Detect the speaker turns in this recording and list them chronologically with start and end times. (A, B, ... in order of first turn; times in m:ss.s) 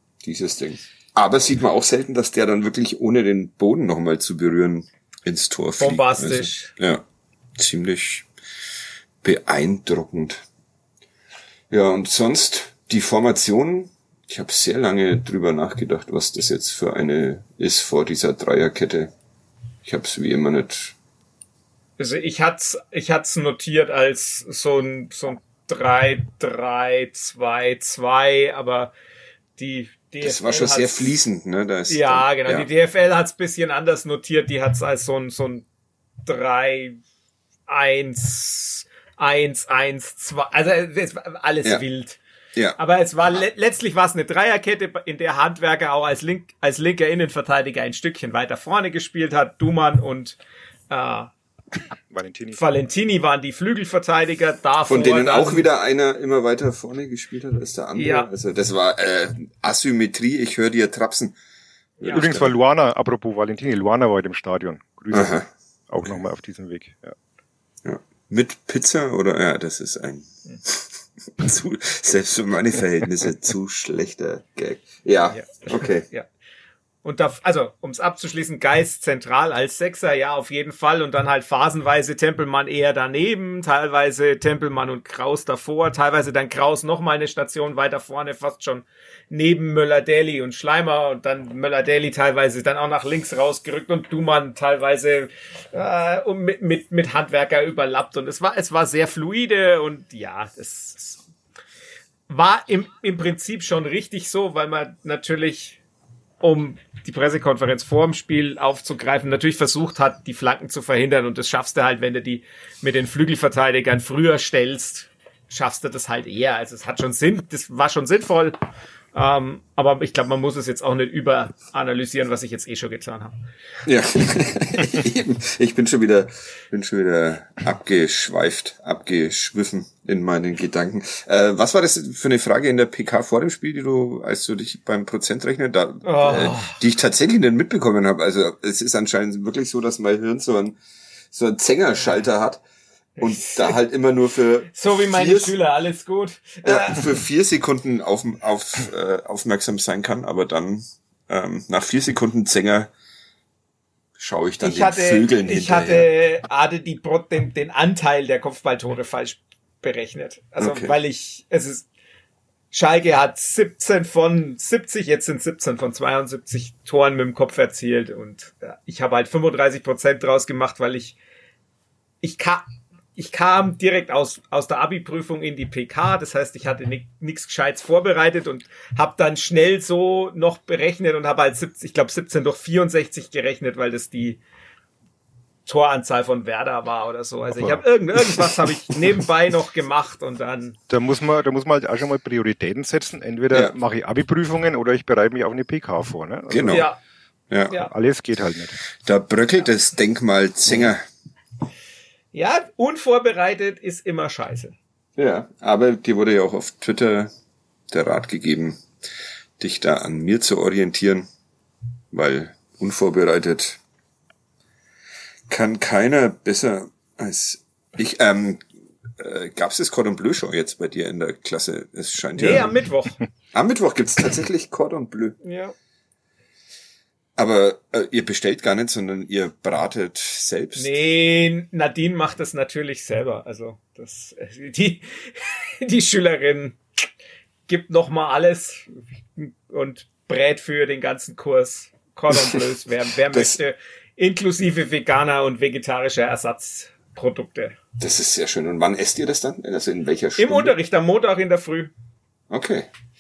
0:00.2-0:07.0 A
0:05.8-0:06.7 B
0:07.6-0:08.3 A
0:09.2-0:10.4 A
0:11.7-0:19.1 A
0:19.8-0:21.0 A
0:22.0-0:28.9 B
0:29.6-0:31.1 B
0:30.2-0:32.7 A
0:31.9-0:35.6 B
0:36.3-0:37.0 B
0:37.7-0:42.2 B
0:42.8-0:50.4 B
0:50.9-0:51.3 B
0:52.1-0:52.6 C
0:52.6-0:55.7 B
0:54.9-1:01.4 A
0:58.0-0:58.3 B
1:02.0-1:02.5 A
1:02.0-1:02.3 B
1:02.1-1:07.2 C
1:05.1-1:05.5 A
1:07.8-1:16.1 A
1:15.3-1:16.3 B
1:17.0-1:41.2 B
1:42.3-1:45.8 B
1:46.4-1:58.6 B
1:59.1-2:03.4 B
2:03.8-2:20.8 A
2:16.0-2:16.8 B
2:21.3-2:22.6 A
2:23.2-2:25.6 A
2:23.2-2:23.8 B
2:24.7-2:27.2 B
2:26.6-2:32.9 A
2:34.2-2:36.1 A
2:34.6-2:41.9 B
2:40.6-2:41.0 A
2:42.7-2:51.2 B
2:52.2-3:04.4 B
3:05.7-3:10.8 B
3:07.5-3:07.8 C
3:10.9-3:16.9 C
3:16.5-3:16.9 A
3:16.7-3:17.0 B
3:17.5-3:17.8 A
3:17.7-3:18.8 C
3:19.0-3:21.0 A
3:22.3-3:24.8 B
3:25.2-3:27.3 A
3:27.9-3:28.8 A
3:29.6-3:31.3 A
3:32.1-3:33.8 A
3:35.5-3:38.7 A
3:39.2-3:42.8 A
3:42.4-3:43.2 B
3:43.5-3:45.4 A
3:45.4-3:45.8 B
3:47.4-3:50.9 A
3:50.8-3:56.8 B
3:57.7-4:07.8 B
4:02.3-4:02.6 A
4:03.3-4:03.6 A
4:08.0-4:10.8 A
4:10.4-4:11.9 B
4:12.5-4:12.9 A